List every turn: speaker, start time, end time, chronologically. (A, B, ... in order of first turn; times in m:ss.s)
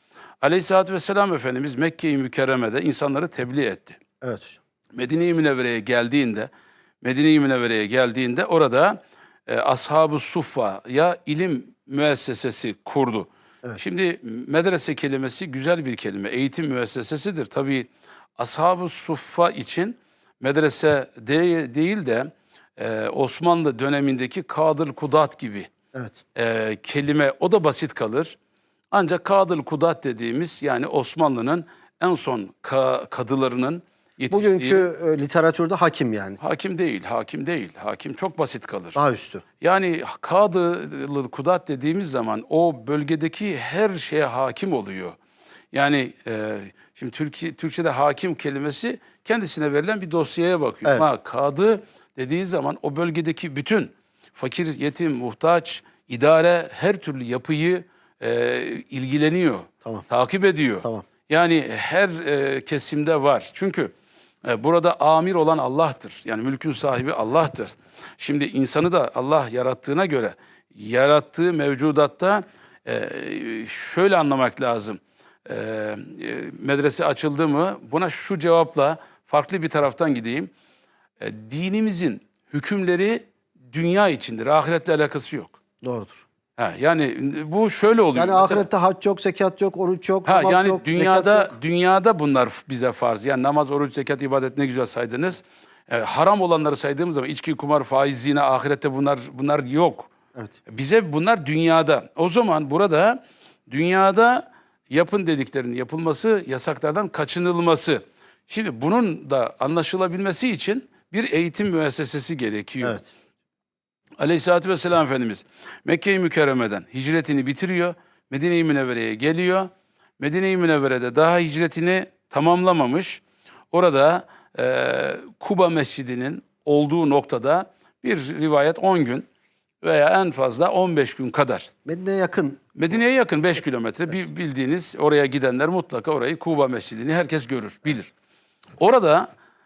0:00.4-0:04.0 A
0:04.2-0:04.6 B
0:04.9-0:06.5 A
0:07.0-0:25.7 A
0:25.9-0:26.2 B
0:26.4-0:28.4 A
0:28.9-0:34.9 A
0:34.3-0:36.4 B
0:36.4-0:39.0 A
0:39.0-0:39.4 B
0:39.6-0:45.2 A
0:45.7-1:03.9 A
1:04.4-1:20.5 A
1:21.2-1:25.6 A
1:25.8-1:26.2 B
1:26.6-1:28.7 A
1:28.2-1:31.5 B
1:30.2-1:40.1 A
1:40.7-1:53.0 A
1:52.8-1:53.1 B
1:54.2-2:09.3 A
2:09.8-2:11.7 A
2:11.8-2:12.6 B
2:12.8-2:18.1 A
2:18.8-2:19.3 A